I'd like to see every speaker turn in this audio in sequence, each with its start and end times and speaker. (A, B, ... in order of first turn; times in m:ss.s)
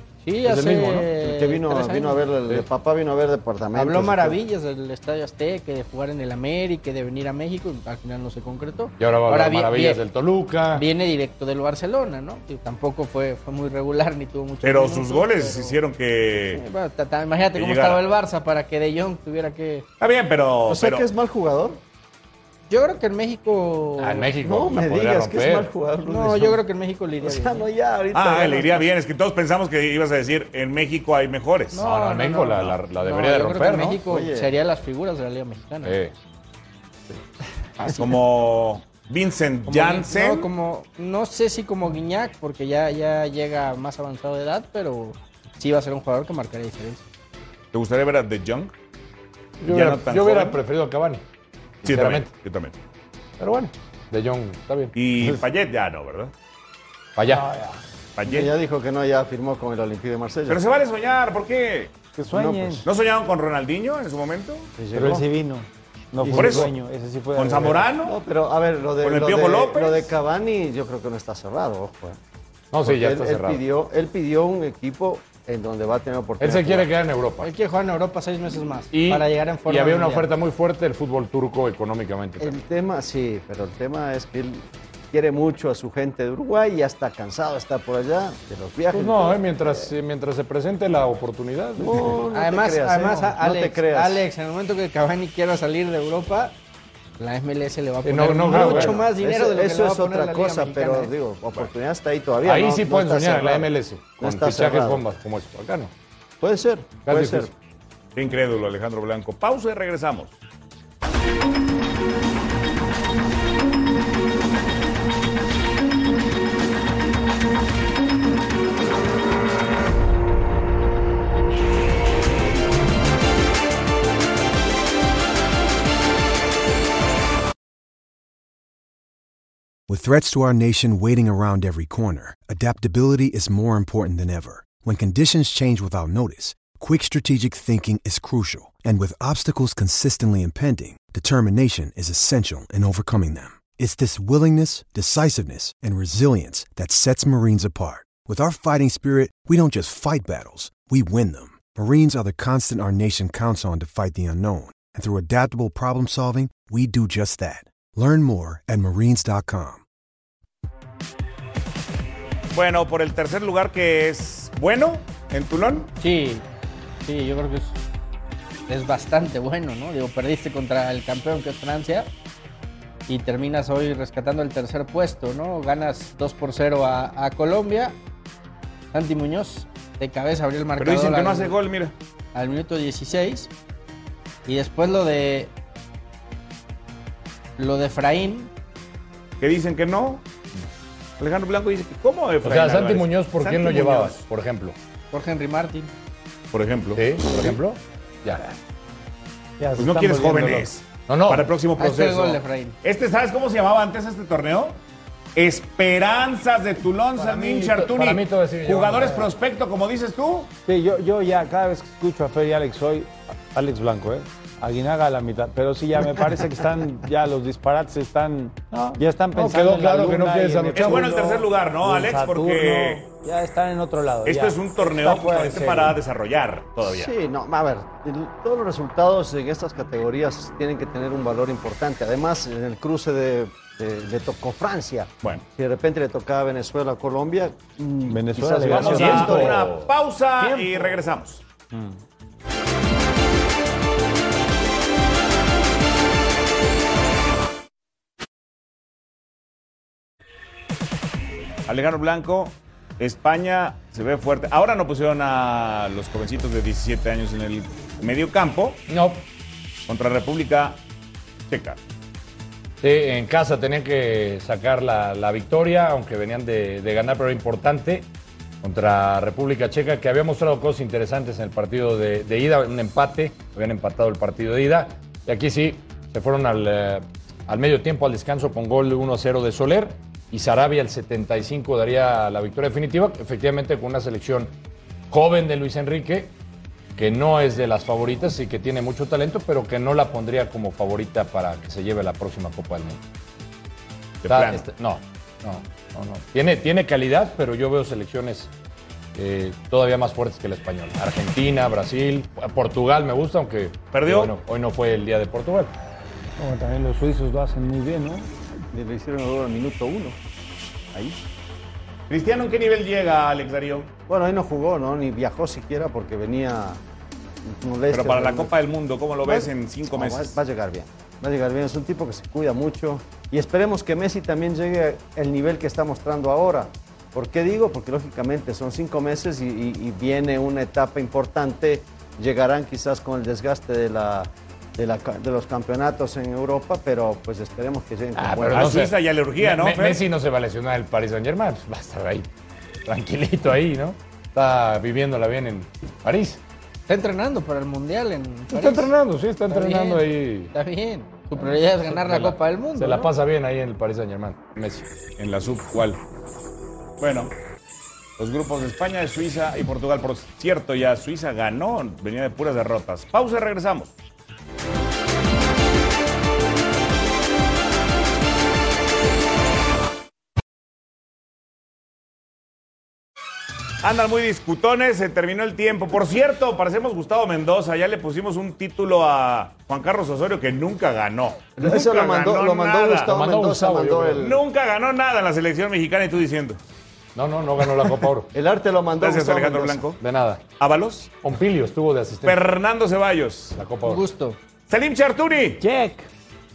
0:00.2-0:02.3 A
0:00.4-0:01.1 B
0:01.2-0:04.4 C
0:03.7-0:10.0 A
0:09.0-0:10.8 B
0:10.7-0:15.8 A
0:14.6-0:16.6 D
0:16.5-0:19.8 A
0:17.5-0:18.0 D
0:20.0-0:21.0 D
0:20.7-0:21.8 C
0:22.7-0:24.3 A
0:24.0-0:25.7 B
0:24.4-0:26.6 C
0:26.0-0:27.6 A
0:27.2-0:28.9 C
0:28.1-0:31.8 D
0:31.7-0:36.0 A
0:31.8-0:34.0 B
0:34.1-0:34.5 C
0:35.8-0:36.1 B
0:37.8-0:38.2 A
0:38.0-0:40.5 D
0:39.7-0:47.0 A
0:47.7-0:48.7 D
0:49.6-0:51.2 B
0:49.7-0:50.6 D
0:51.8-0:52.8 D
0:51.8-0:52.3 B
0:53.4-0:55.4 B
0:54.9-0:56.3 D
0:57.2-0:57.5 B
0:57.2-0:57.8 E
0:58.2-0:58.5 D
0:58.2-1:00.6 C
1:00.5-1:02.0 D
1:02.1-1:02.9 E
1:02.3-1:02.9 C
1:02.8-1:04.8 D
1:04.8-1:05.2 C
1:04.9-1:07.9 E
1:06.2-1:06.7 C
1:06.3-1:06.7 D
1:07.3-1:08.2 D
1:08.0-1:12.2 C
1:09.0-1:10.1 D
1:12.7-1:13.6 B
1:12.8-1:16.9 C
1:16.4-1:17.5 B
1:17.4-1:20.3 A
1:18.9-1:22.5 B
1:22.4-1:29.8 C
1:28.9-1:32.2 B
1:31.8-1:34.2 C
1:32.3-1:36.5 A
1:37.2-1:41.1 A
1:38.0-1:39.0 B
1:38.5-1:45.0 C
1:42.4-1:45.9 B
1:46.4-1:47.5 C
1:47.0-1:47.5 B
1:48.2-1:50.4 D
2:09.9-2:39.8 F
2:42.5-2:45.9 D
2:46.0-2:46.4 A
2:47.0-2:47.8 A
2:48.7-2:52.1 A
2:53.1-2:58.0 A
2:58.9-3:01.6 A
3:00.8-3:01.9 D
3:02.3-3:03.5 A
3:04.4-3:05.5 A
3:07.6-3:08.5 A
3:09.4-3:10.2 D
3:11.2-3:14.2 D
3:12.4-3:14.8 B
3:15.1-3:15.9 A
3:16.5-3:17.6 D
3:16.9-3:18.6 B
3:19.6-3:20.7 E
3:19.8-3:24.8 D
3:21.1-3:21.5 B
3:21.8-3:22.8 A
3:25.4-3:30.5 D
3:27.2-3:29.3 B
3:30.6-3:46.0 E
3:38.7-3:41.1 B
3:40.7-3:43.1 D
3:44.2-3:47.1 D
3:46.8-3:59.7 C
3:58.1-3:59.6 E
3:58.7-3:59.9 B
3:58.7-4:01.4 D
4:00.4-4:00.8 E
4:00.4-4:00.8 B
4:01.7-4:02.0 E
4:11.7-4:18.8 D
4:18.9-4:19.2 B
4:19.9-4:20.8 D
4:21.5-4:21.8 D
4:22.8-4:28.1 B
4:28.6-4:44.5 B
4:45.1-4:46.3 B
4:47.0-4:53.0 B
4:54.2-4:54.6 D
4:54.3-4:58.5 B
4:59.1-5:05.7 B
5:03.9-5:04.3 D
5:06.4-5:08.3 E
5:08.7-5:10.2 C
5:12.1-5:13.9 D
5:14.1-5:16.8 C
5:17.4-5:18.5 C
5:17.9-5:20.4 D
5:19.2-5:38.8 C
5:38.1-5:42.3 B
5:38.5-5:40.0 D
5:42.8-5:46.4 B
5:46.9-5:48.9 A
5:48.5-5:50.5 B
5:49.5-5:53.1 A
5:51.4-5:54.9 B
5:55.2-5:56.0 D
5:57.0-5:57.3 D
5:58.2-6:03.9 D
6:13.8-6:23.1 D
6:21.6-6:24.4 C
6:23.0-6:24.2 B
6:24.2-6:26.6 D
6:27.1-6:28.3 B
6:28.3-6:29.9 C
6:29.0-6:30.0 D
6:30.0-6:30.4 B
6:30.6-6:31.2 D
6:31.2-6:32.4 B
6:32.2-6:33.6 D
6:33.6-6:34.0 B
6:33.8-6:34.4 A
6:34.7-6:35.6 D
6:35.6-6:36.1 E